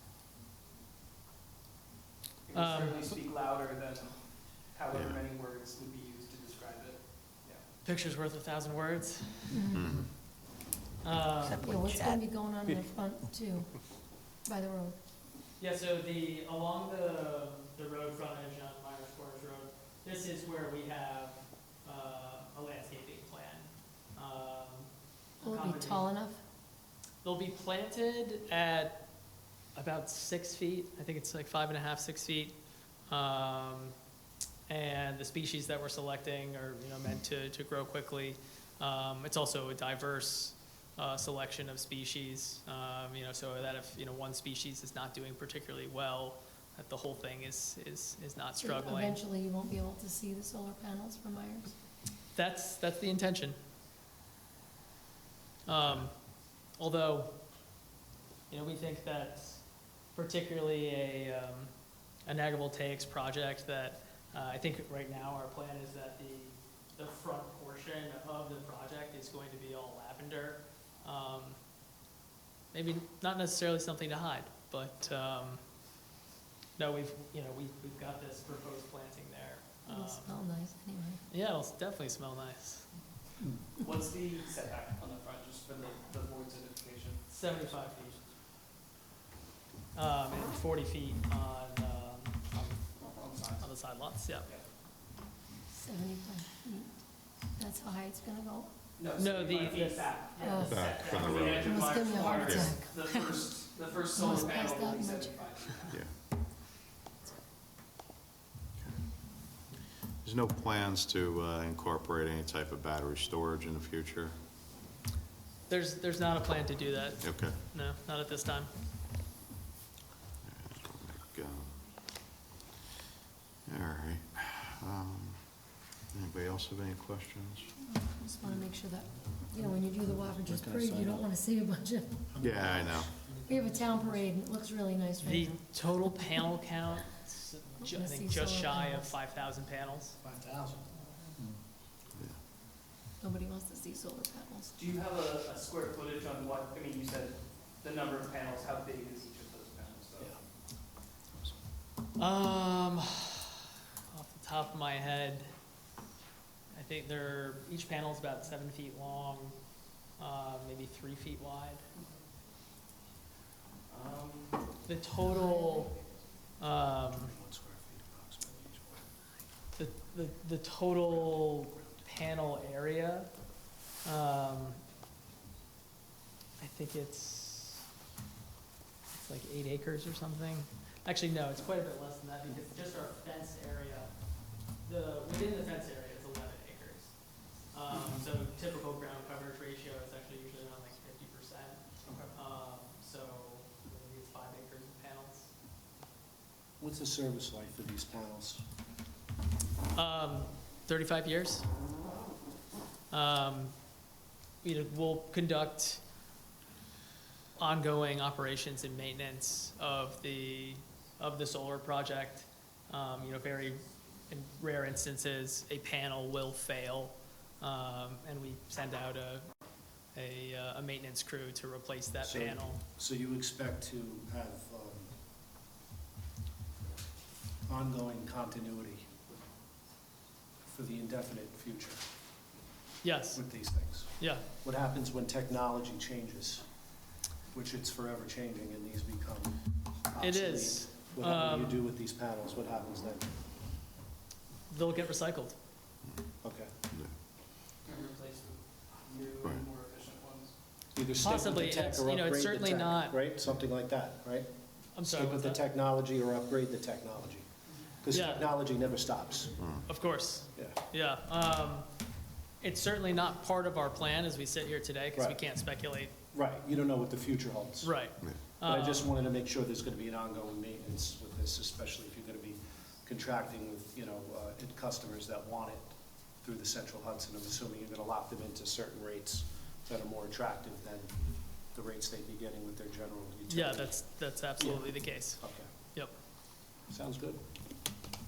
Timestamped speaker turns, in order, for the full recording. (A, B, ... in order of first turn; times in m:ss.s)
0:02.5-0:07.7 A
0:02.5-0:03.1 B
0:04.9-0:05.2 C
0:07.8-0:09.6 B
0:09.5-0:09.9 D
0:09.7-0:10.1 C
0:11.0-0:11.8 B
0:11.5-0:13.7 D
0:14.4-0:15.0 D
0:15.6-0:24.9 B
0:25.4-0:26.1 B
0:25.4-0:26.4 D
0:27.2-0:29.0 B
0:29.7-0:32.6 B
0:33.1-0:34.0 B
0:34.7-0:49.2 B
0:48.6-0:51.8 D
0:52.3-0:53.6 B
0:55.7-0:56.1 B
0:56.8-0:57.3 B
0:58.5-1:01.7 B
1:02.3-1:11.6 B
1:12.7-1:15.6 B
1:16.8-1:20.4 B
1:19.9-1:21.2 D
1:21.3-1:22.9 B
1:23.7-1:27.7 A
1:27.3-1:28.2 B
1:29.9-1:32.8 B
1:33.2-1:34.6 A
1:33.6-1:34.5 B
1:35.7-1:38.7 D
1:39.0-1:46.0 A
1:39.2-1:41.5 B
1:40.4-1:43.3 D
1:40.6-1:42.8 C
1:44.2-1:45.4 D
1:45.9-1:46.1 C
1:50.2-1:54.4 C
1:55.7-1:58.7 B
1:57.2-1:57.6 C
2:00.4-2:01.8 C
2:03.7-2:07.7 C
2:07.8-2:12.4 D
2:09.6-2:11.3 E
2:12.3-2:14.3 E
2:12.4-2:13.2 C
2:13.4-2:15.6 D
2:15.2-2:20.2 B
2:17.8-2:19.1 D
2:20.2-2:21.5 E
2:23.2-2:24.7 D
2:24.7-2:30.4 A
2:32.2-2:33.5 B
2:34.1-2:35.5 B
2:36.7-2:39.6 B
2:40.2-2:41.8 B
2:43.9-2:44.6 A
2:44.8-2:46.0 B
2:46.6-2:47.3 B
2:47.1-2:49.1 E
2:49.8-2:53.4 B
2:51.1-2:52.1 E
2:54.0-2:54.8 B
2:56.6-2:57.8 B
2:59.1-3:15.5 B
3:12.0-3:12.3 A
3:16.8-3:18.6 E
3:19.9-3:21.7 B
3:23.1-3:23.8 B
3:24.6-3:26.0 B
3:27.6-3:39.5 B
3:40.1-3:42.8 B
3:42.2-3:45.1 E
3:47.7-3:49.2 E
3:50.6-3:52.0 E
3:53.0-3:54.4 B
3:53.3-3:56.7 E
3:57.5-4:03.3 E
4:00.2-4:01.8 B
4:04.7-4:05.6 B
4:06.4-4:06.7 E
4:07.8-4:10.6 A
4:11.0-4:17.5 E
4:11.2-4:13.2 B
4:15.0-4:15.6 B
4:18.0-4:19.6 E
4:18.1-4:18.5 B
4:19.9-4:21.9 B
4:22.6-4:26.1 B
4:25.2-4:25.5 E
4:26.3-4:45.7 E
4:27.8-4:29.1 B
4:43.5-4:46.1 B
4:46.9-4:47.4 E